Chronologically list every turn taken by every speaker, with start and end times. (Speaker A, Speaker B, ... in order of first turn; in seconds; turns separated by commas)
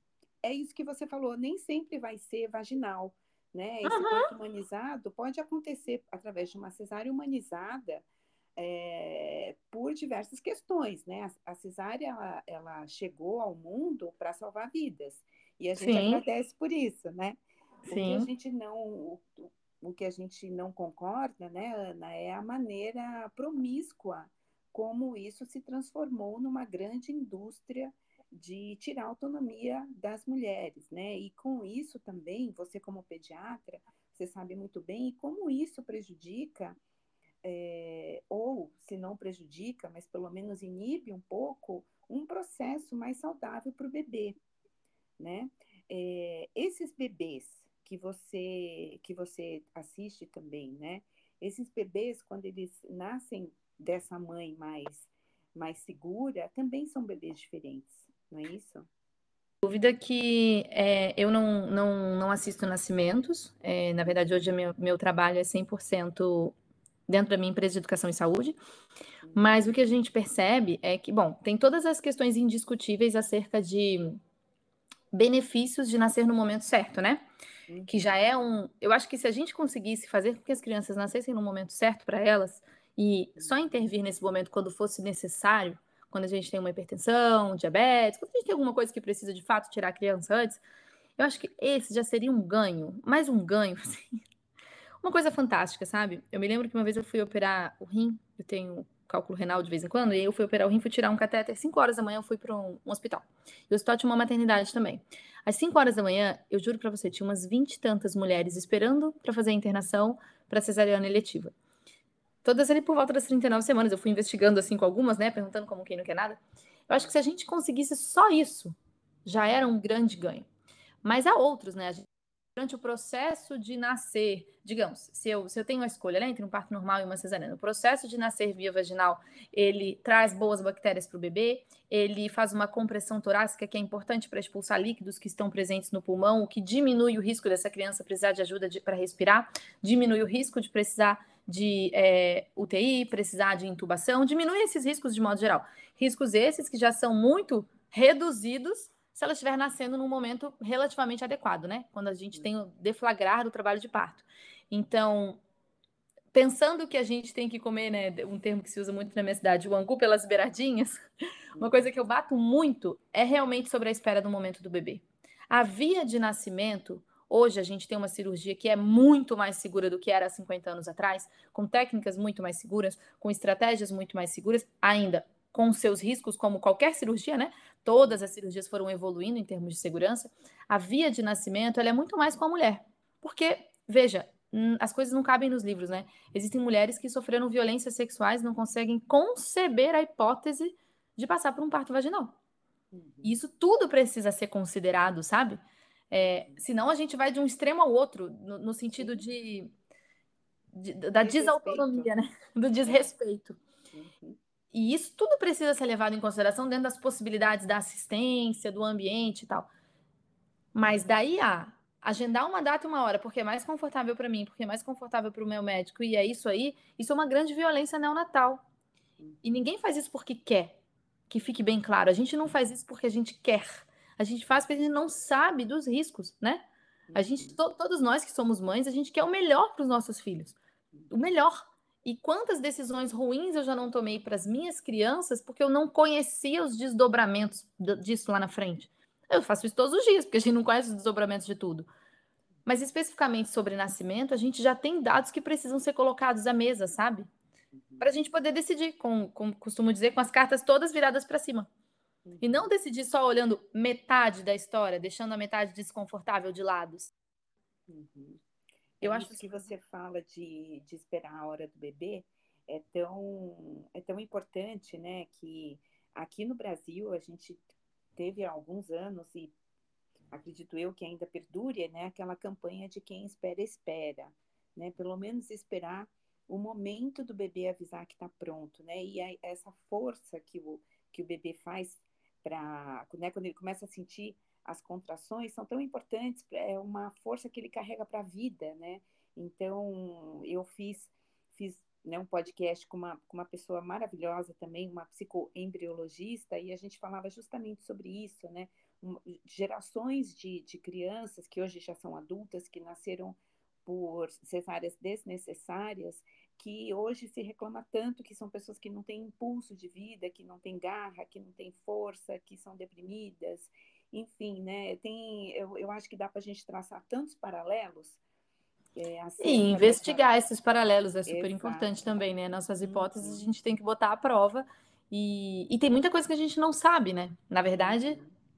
Speaker A: 0.4-8.1, Speaker B: 3.9-4.3, Speaker A: 8.6-36.8, Speaker B: 15.8-16.2, Speaker B: 17.9-18.3, Speaker A: 37.4-44.4, Speaker A: 45.2-58.9, Speaker B: 59.6-66.5, Speaker B: 67.1-68.6, Speaker A: 69.2-69.8, Speaker B: 69.3-74.2, Speaker B: 75.1-77.3, Speaker A: 77.7-78.2, Speaker B: 77.9-90.6, Speaker A: 83.4-83.7, Speaker B: 91.2-94.2, Speaker B: 95.0-111.5, Speaker B: 112.4-120.5, Speaker B: 121.0-155.4, Speaker B: 156.3-161.0, Speaker A: 161.6-161.9, Speaker B: 161.6-192.4, Speaker A: 192.9-193.4, Speaker B: 193.2-195.6, Speaker B: 196.1-199.7, Speaker A: 196.2-196.6, Speaker A: 199.0-199.2, Speaker B: 200.7-203.6, Speaker A: 201.2-202.1, Speaker A: 203.9-204.4, Speaker B: 204.7-209.7, Speaker B: 210.7-218.6, Speaker B: 219.4-220.8, Speaker B: 221.3-226.6, Speaker A: 227.1-227.6, Speaker B: 227.2-230.6, Speaker B: 231.1-241.9, Speaker B: 242.7-247.3, Speaker A: 247.7-248.1, Speaker B: 248.0-251.7, Speaker A: 252.3-252.7, Speaker B: 252.4-257.1, Speaker A: 257.9-258.4, Speaker A: 259.0-269.5, Speaker B: 259.0-259.5, Speaker A: 270.3-318.2, Speaker A: 319.0-320.2, Speaker B: 319.4-328.2, Speaker A: 321.3-321.9, Speaker A: 322.8-323.5, Speaker A: 327.7-328.3